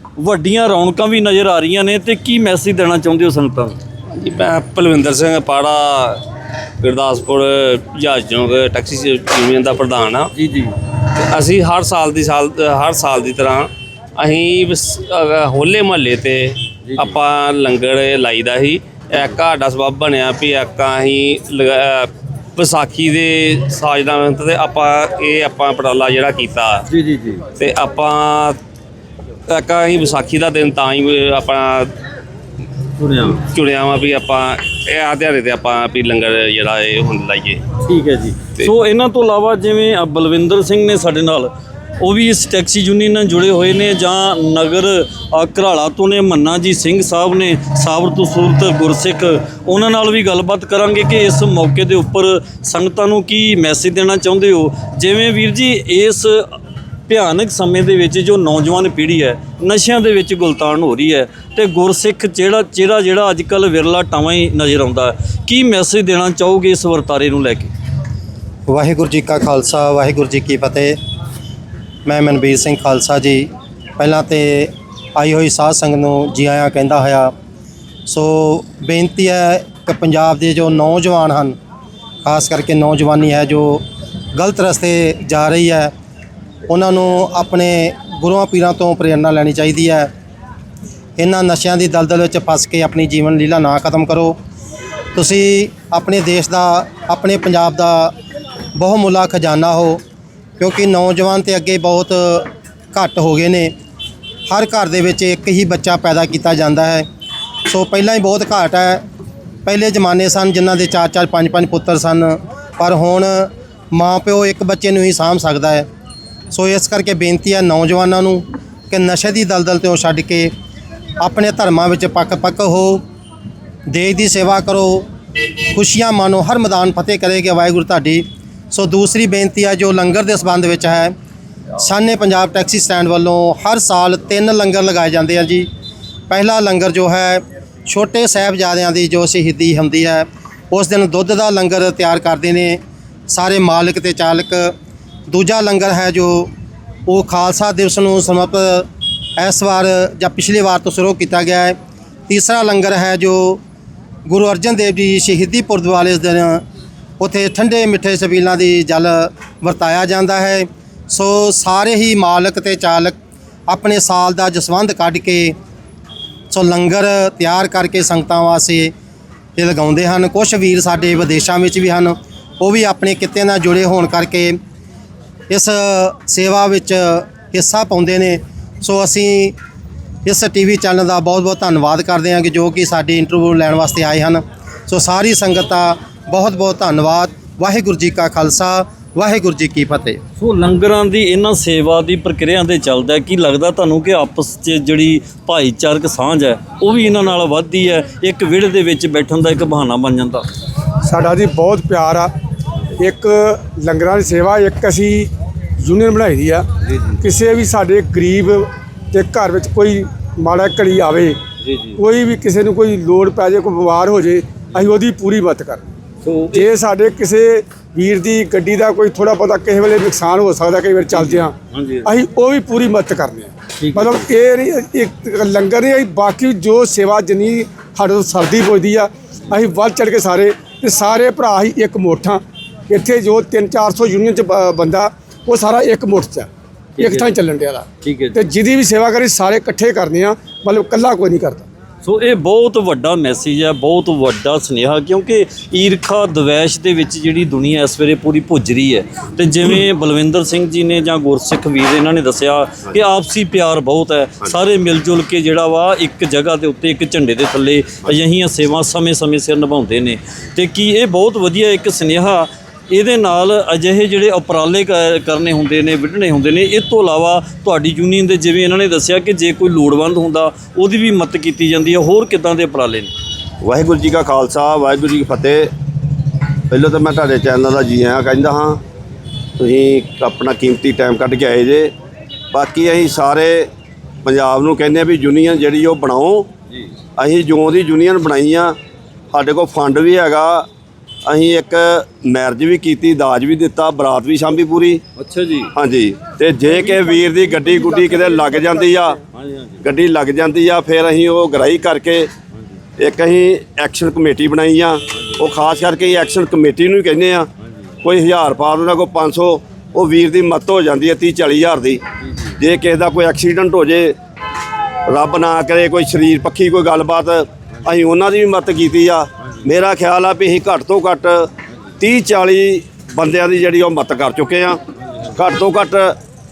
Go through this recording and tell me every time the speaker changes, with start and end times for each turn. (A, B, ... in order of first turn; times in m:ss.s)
0:00.2-0:03.8 A
0:04.1-0:06.2 B
0:06.8-0:10.3 B
0:10.4-0:10.7 A
0:11.1-0:26.9 B
0:26.9-0:27.4 A
0:27.6-0:28.6 B
0:29.5-0:31.9 B
0:33.0-0:33.4 A
0:33.4-0:37.6 B
0:37.8-0:56.5 A
0:57.1-1:07.7 A
1:08.7-1:11.0 C
1:12.1-1:17.3 C
1:18.1-1:21.6 C
1:22.2-1:23.8 C
1:24.4-1:25.9 C
1:26.7-1:30.1 C
1:31.2-1:34.4 C
1:35.1-1:38.1 C
1:38.8-1:40.0 C
1:40.6-1:43.7 C
1:44.5-1:47.0 C
1:47.7-1:49.0 C
1:49.6-1:55.9 C
1:56.5-2:00.5 C
2:01.2-2:03.0 C
2:03.9-2:05.1 C
2:05.7-2:11.1 C
2:11.8-2:15.7 C
2:16.3-2:24.7 C
2:25.3-2:26.5 C
2:27.1-2:31.8 C
2:32.3-2:33.6 C
2:34.3-2:36.6 C
2:37.2-2:43.2 C
2:43.7-2:45.6 C
2:46.5-2:48.9 C
2:49.6-2:54.6 C
2:55.5-2:59.6 C
3:00.2-3:10.2 C
3:10.4-3:20.5 A
3:21.1-3:22.3 D
3:23.0-3:25.3 D
3:25.8-3:26.6 D
3:26.9-3:27.2 A
3:27.2-3:31.4 D
3:31.6-3:32.0 A
3:32.0-3:35.8 D
3:36.2-3:36.7 A
3:36.5-3:41.5 D
3:41.1-3:42.1 A
3:42.1-3:56.5 D
3:43.8-3:44.3 A
3:57.0-3:57.3 A
3:57.0-3:57.8 D
3:58.0-3:58.4 A
3:58.4-4:01.7 D
4:02.0-4:33.1 A
4:33.6-4:35.7 E
4:36.7-4:38.8 E
4:39.6-4:41.9 E
4:42.5-4:43.7 E
4:44.2-4:46.5 E
4:47.2-4:48.8 E
4:49.3-4:50.7 E
4:51.3-4:55.0 E
4:55.2-4:55.7 A
4:55.8-4:59.2 E
4:59.4-4:59.7 A
4:59.8-5:02.3 E
5:03.0-5:07.5 E
5:08.0-5:12.0 E
5:12.6-5:14.2 E
5:15.1-5:24.8 E
5:25.3-5:26.2 E